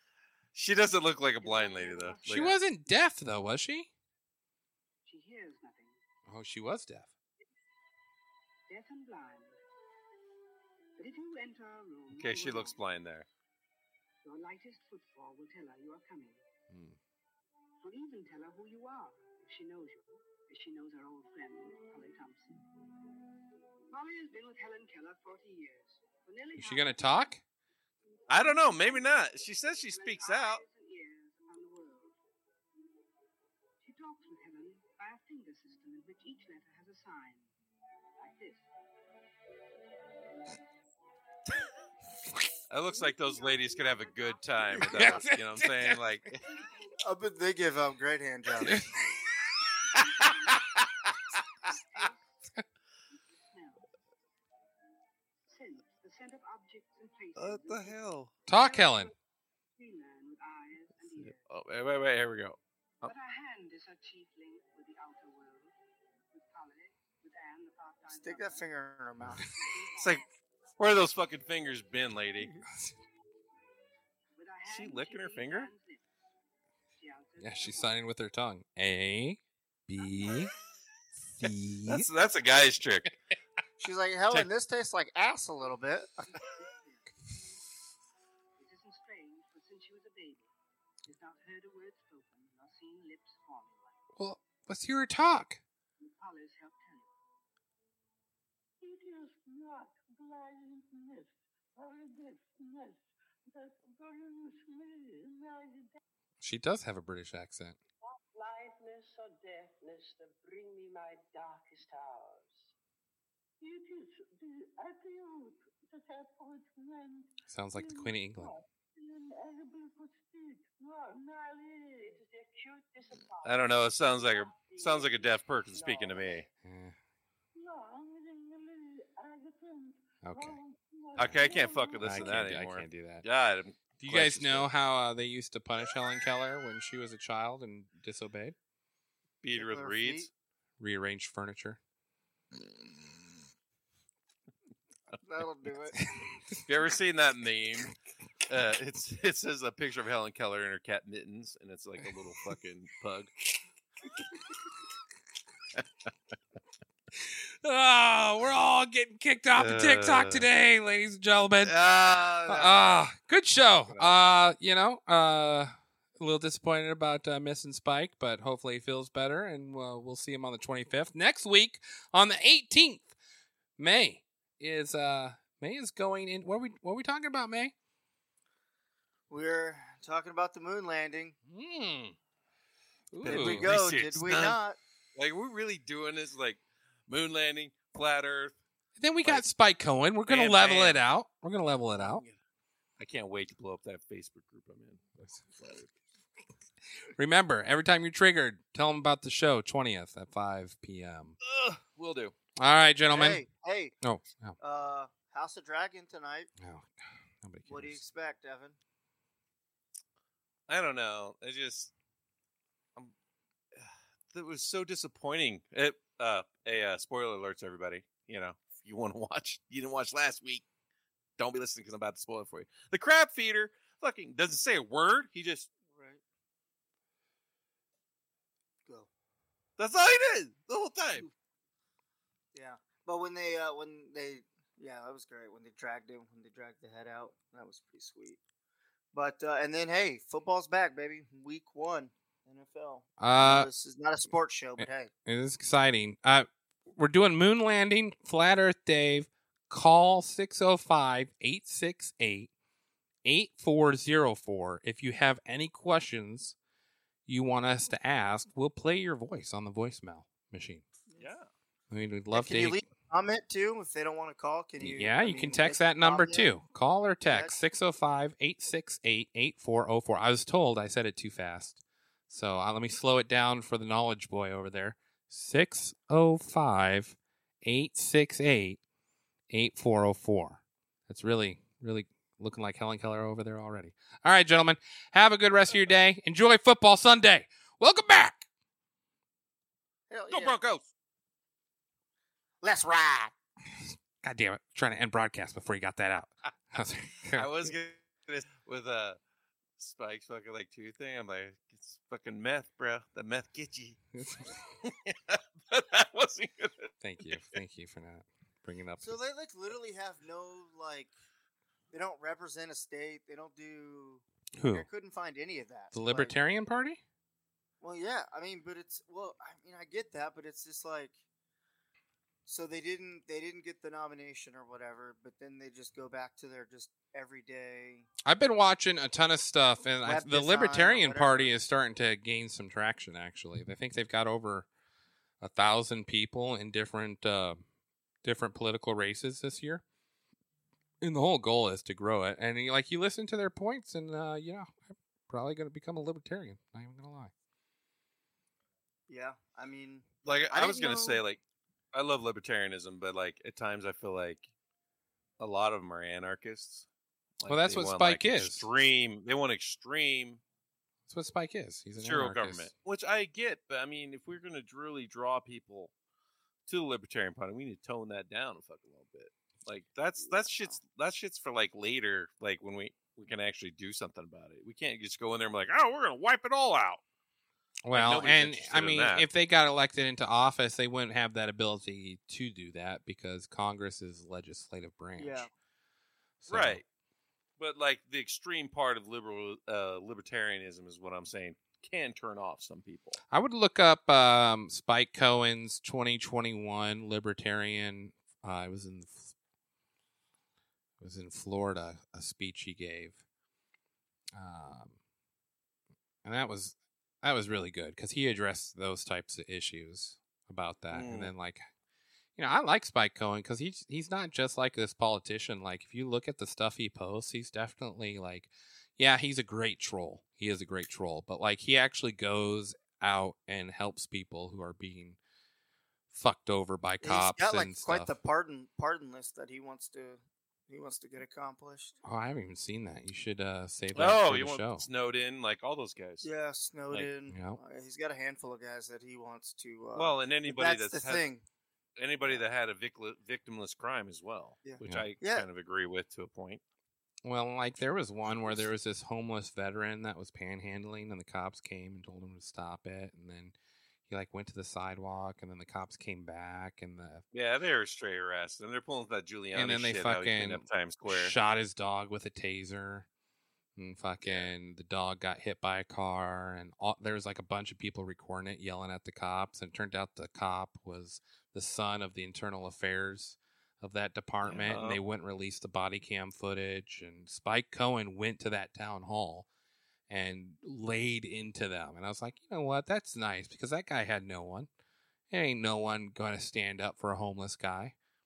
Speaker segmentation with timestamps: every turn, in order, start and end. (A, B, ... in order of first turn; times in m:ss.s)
0:00.6-0:02.6 A
0:01.4-0:02.8 B
0:02.3-0:03.9 C
0:05.0-0:06.0 B
0:06.3-0:07.1 C
0:08.7-0:09.6 B
0:11.0-0:12.8 B
0:12.1-0:13.3 A
0:14.2-0:16.4 B
0:16.7-0:17.0 C
0:17.8-0:22.6 B
0:23.9-0:27.3 B
0:26.6-0:27.4 C
0:28.3-0:32.2 B
0:28.3-0:30.6 A
0:33.8-0:37.5 B
0:38.2-0:38.7 B
0:42.7-0:46.4 A
0:42.8-0:45.3 B
0:44.8-0:46.0 C
0:46.4-0:47.0 B
0:47.0-0:48.8 D
0:48.6-0:49.0 C
0:49.9-0:50.6 B
0:51.6-0:52.4 B
0:53.1-0:53.8 B
0:55.4-0:59.1 B
0:57.4-0:58.3 A
0:58.5-0:59.1 C
0:59.8-1:01.4 B
1:01.2-1:03.1 A
1:03.0-1:05.8 B
1:06.3-1:08.7 B
1:08.1-1:09.5 D
1:09.5-1:10.3 B
1:10.8-1:12.5 A
1:14.4-1:16.0 B
1:14.6-1:15.7 A
1:17.0-1:18.0 B
1:17.4-1:20.5 C
1:20.0-1:20.4 B
1:21.3-1:22.1 C
1:21.9-1:23.1 A
1:23.8-1:26.4 D
1:26.3-1:27.2 B
1:28.6-1:30.5 B
1:31.0-1:34.0 B
1:34.2-1:35.6 C
1:36.0-1:37.1 B
1:46.4-1:47.8 C
1:48.6-1:49.1 E
1:49.6-1:50.1 E
1:50.1-1:52.4 B
1:57.5-1:58.6 C
2:01.2-2:03.5 B
2:03.4-2:06.5 A
2:04.1-2:04.4 E
2:04.6-2:05.0 B
2:04.9-2:05.3 E
2:05.8-2:06.1 B
2:06.6-2:07.0 C
2:10.2-2:10.6 C
2:11.2-2:14.7 A
2:11.2-2:13.2 C
2:11.3-2:12.0 E
2:14.0-2:18.6 C
2:19.4-2:20.3 A
2:19.5-2:20.3 D
2:20.8-2:21.8 C
2:25.2-2:26.0 D
2:26.7-2:27.9 A
2:28.5-2:33.3 A
2:37.2-2:41.8 C
2:39.5-2:40.5 A
2:41.6-2:43.0 A
2:42.5-2:53.1 C
2:43.9-2:44.2 A
2:53.8-2:57.7 C
2:59.3-3:01.4 D
3:01.5-3:02.2 C
3:03.1-3:03.7 C
3:03.2-3:04.6 A
3:03.2-3:04.8 D
3:05.2-3:08.6 A
3:09.0-3:12.2 C
3:10.3-3:11.0 A
3:11.9-3:12.3 A
3:13.0-3:15.9 A
3:17.2-3:21.4 C
3:21.4-3:22.4 A
3:22.6-3:23.4 C
3:23.1-3:23.9 D
3:24.0-3:24.6 C
3:24.6-3:26.5 D
3:26.6-3:26.9 C
3:27.4-3:28.0 C
3:27.7-3:28.8 D
3:30.7-3:31.9 A
3:33.8-3:40.6 A
3:41.4-3:45.7 A
3:45.9-3:46.2 D
3:49.8-3:51.3 A
3:52.6-3:58.4 D
3:59.1-4:05.1 D
4:03.2-4:03.7 C
4:04.8-4:12.5 C
4:13.2-4:16.6 C
4:17.3-4:20.8 C
4:21.2-4:21.5 A
4:21.9-4:22.8 C
4:22.3-4:26.6 D
4:24.8-4:38.8 C
4:27.3-4:27.6 D
4:39.5-4:48.5 C
4:50.1-4:50.6 D
4:50.3-4:50.8 A
4:52.6-4:53.3 D
4:53.8-4:57.7 C
4:57.4-4:59.2 A
4:59.8-5:04.0 A
5:04.2-5:04.6 C
5:04.8-5:07.6 A
5:07.0-5:09.2 C
5:09.0-5:11.1 D
5:11.9-5:16.4 D
5:14.6-5:14.9 C
5:15.9-5:17.0 C
5:17.8-5:21.2 D
5:22.5-5:28.1 D
5:28.2-5:34.7 C
5:30.0-5:31.5 D
5:35.4-5:37.6 C
5:38.2-5:39.8 C
5:41.0-5:47.3 C
5:49.1-5:51.2 D
5:50.2-5:51.4 A
5:51.9-5:54.5 A
5:55.4-5:56.9 A
5:57.4-6:00.4 A
5:57.5-5:58.7 C
6:01.1-6:02.7 C
6:02.0-6:05.9 A
6:06.7-6:17.0 A
6:10.4-6:10.8 D
6:17.8-6:25.5 C
6:17.9-6:19.3 A
6:25.2-6:25.5 D
6:26.4-6:26.8 C
6:26.5-6:26.8 A
6:27.6-6:33.2 A
6:33.3-6:39.3 C
6:41.0-6:43.2 C
6:44.4-6:45.0 C
6:46.2-6:51.6 C
6:50.9-6:51.3 A
6:52.4-7:05.2 C
7:06.1-7:08.2 C
7:07.0-7:12.0 D
7:12.0-7:14.9 C
7:13.9-7:16.3 A
7:16.2-7:21.4 D
7:17.3-7:17.6 C
7:20.0-7:21.2 A
7:22.0-7:26.6 A
7:24.6-7:25.5 D
7:27.2-7:33.6 C
7:34.1-7:37.2 C
7:37.3-7:41.4 A
7:39.5-7:43.1 C
7:43.8-7:59.5 C
7:44.2-7:44.5 A
7:54.4-7:55.0 A
8:00.1-8:04.7 C
8:05.3-8:08.0 C